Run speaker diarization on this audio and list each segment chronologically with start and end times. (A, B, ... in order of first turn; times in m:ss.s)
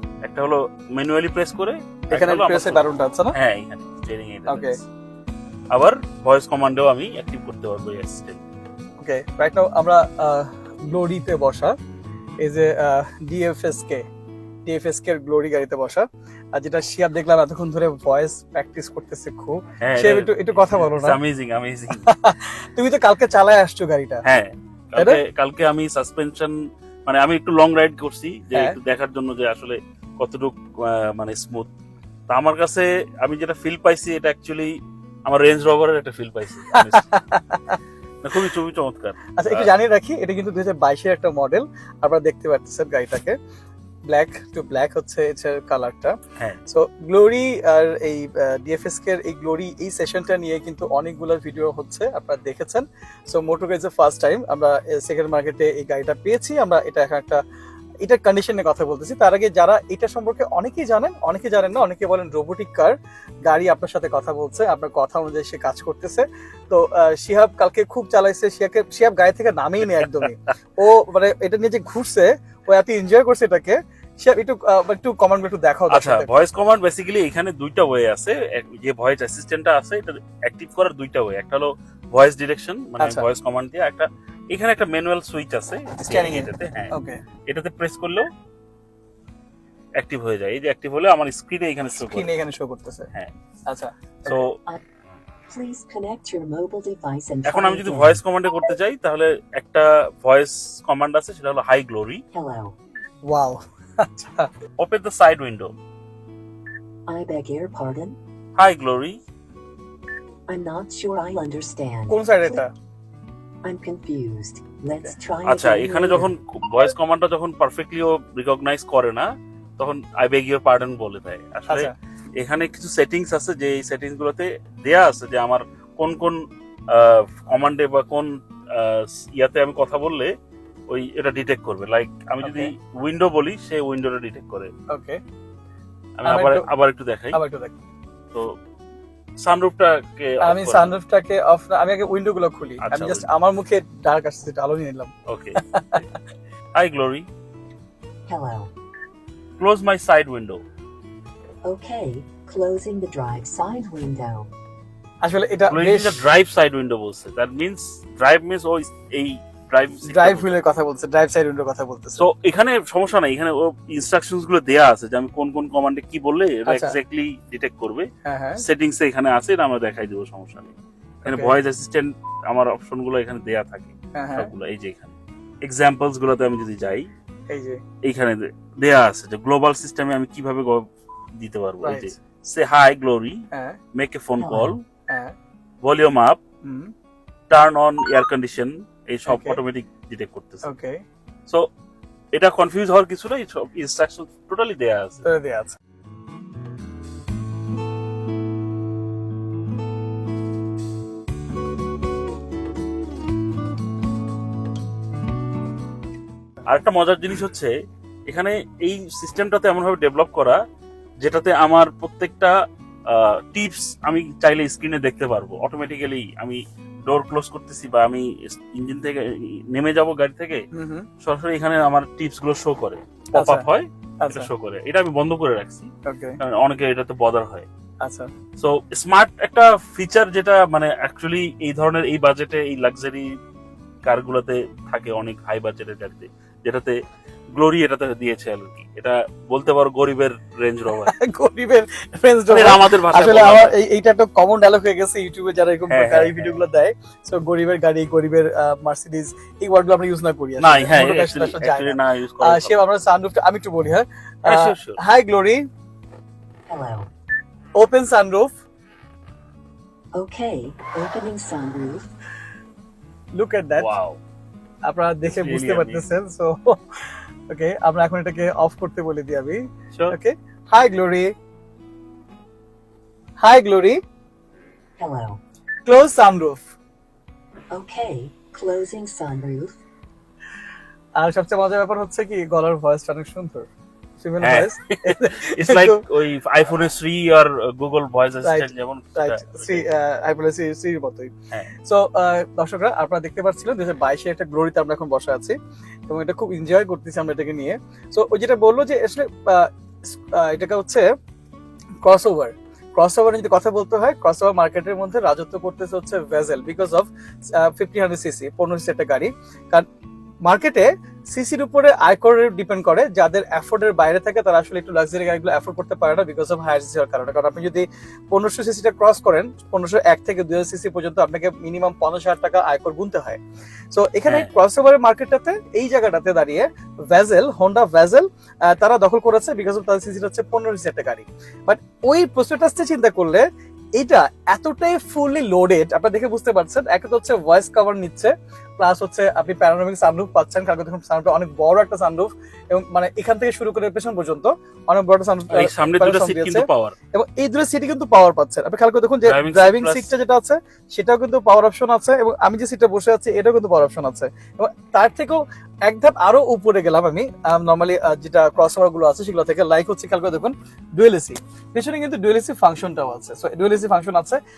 0:00.2-0:04.8 A
0:02.1-0:03.3 B
0:04.5-0:04.8 B
0:05.7-0:08.4 A
0:09.0-0:11.8 B
0:12.4-0:14.0 B
0:14.6-0:21.2 B
0:19.8-0:22.1 A
0:21.9-0:24.2 B
0:24.2-0:31.7 A
0:32.3-0:37.1 A
0:36.7-0:37.8 B
0:38.2-0:39.7 A
0:39.4-0:43.4 B
0:44.1-0:57.4 B
0:58.0-1:02.9 B
1:03.4-1:16.3 B
1:09.9-1:10.3 A
1:15.9-1:26.9 A
1:23.0-1:23.3 B
1:26.0-1:27.2 B
1:27.5-1:28.3 A
1:30.0-1:32.3 A
1:31.9-1:33.1 B
1:33.7-1:34.4 B
1:34.2-1:34.6 A
1:35.5-1:38.2 C
1:37.4-1:42.2 A
1:42.3-1:42.7 C
1:43.2-1:44.5 B
1:44.8-1:45.7 A
1:47.1-1:48.2 C
1:48.6-1:49.2 A
1:50.5-1:52.6 C
1:52.1-1:52.7 B
1:53.6-1:56.3 C
1:55.4-2:10.3 A
2:01.7-2:01.9 B
2:10.9-2:14.7 A
2:12.4-2:12.7 B
2:14.9-2:15.2 B
2:16.2-2:17.4 A
2:16.2-2:16.7 B
2:17.3-2:17.8 B
2:19.4-2:20.9 A
2:20.4-2:26.1 B
2:22.8-2:23.3 A
2:25.3-2:25.6 A
2:26.7-2:27.3 A
2:28.3-2:28.7 C
2:29.6-2:30.6 A
2:31.6-2:34.5 C
2:35.2-2:36.2 B
2:35.7-2:40.6 A
2:40.0-2:42.2 B
2:42.2-2:57.1 A
2:46.7-2:47.0 B
2:48.2-2:48.6 B
2:51.2-2:51.5 B
2:54.1-2:54.5 B
2:57.5-2:57.8 B
2:58.0-3:04.8 A
3:01.8-3:02.1 B
3:03.5-3:03.8 B
3:04.4-3:04.7 C
3:05.1-3:05.3 B
3:05.8-3:06.4 A
3:06.6-3:06.9 B
3:07.5-3:10.7 A
3:09.3-3:09.6 B
3:10.6-3:11.0 B
3:12.3-3:15.2 A
3:15.2-3:15.8 B
3:26.7-3:27.7 A
3:28.3-3:30.6 A
3:31.2-3:32.5 A
3:33.1-3:40.6 A
3:40.7-3:41.1 B
3:41.2-3:47.7 A
3:43.4-3:43.7 B
3:44.2-3:44.5 B
3:46.0-3:46.4 B
3:48.0-3:48.3 B
3:48.6-3:53.3 A
3:54.0-3:57.0 A
3:57.5-4:01.1 A
4:01.0-4:15.6 B
4:02.5-4:03.7 A
4:05.9-4:06.6 A
4:10.6-4:12.8 A
4:14.4-4:15.0 A
4:16.7-4:17.1 C
4:17.8-4:18.6 B
4:20.1-4:22.0 C
4:23.3-4:23.9 B
4:23.8-4:24.2 A
4:24.8-4:31.3 B
4:25.2-4:26.1 A
4:29.9-4:30.2 A
4:33.4-4:34.0 B
4:35.0-4:35.4 C
4:35.8-4:36.7 B
4:37.7-4:39.8 C
4:41.2-4:43.7 B
4:44.2-4:46.0 B
4:44.4-4:49.9 A
4:48.4-4:55.6 B
4:56.1-5:01.1 B
5:02.0-5:09.8 B
5:10.4-5:23.4 B
5:23.9-6:04.4 B
5:24.3-5:24.5 A
5:45.5-5:46.9 A
5:49.2-5:50.1 A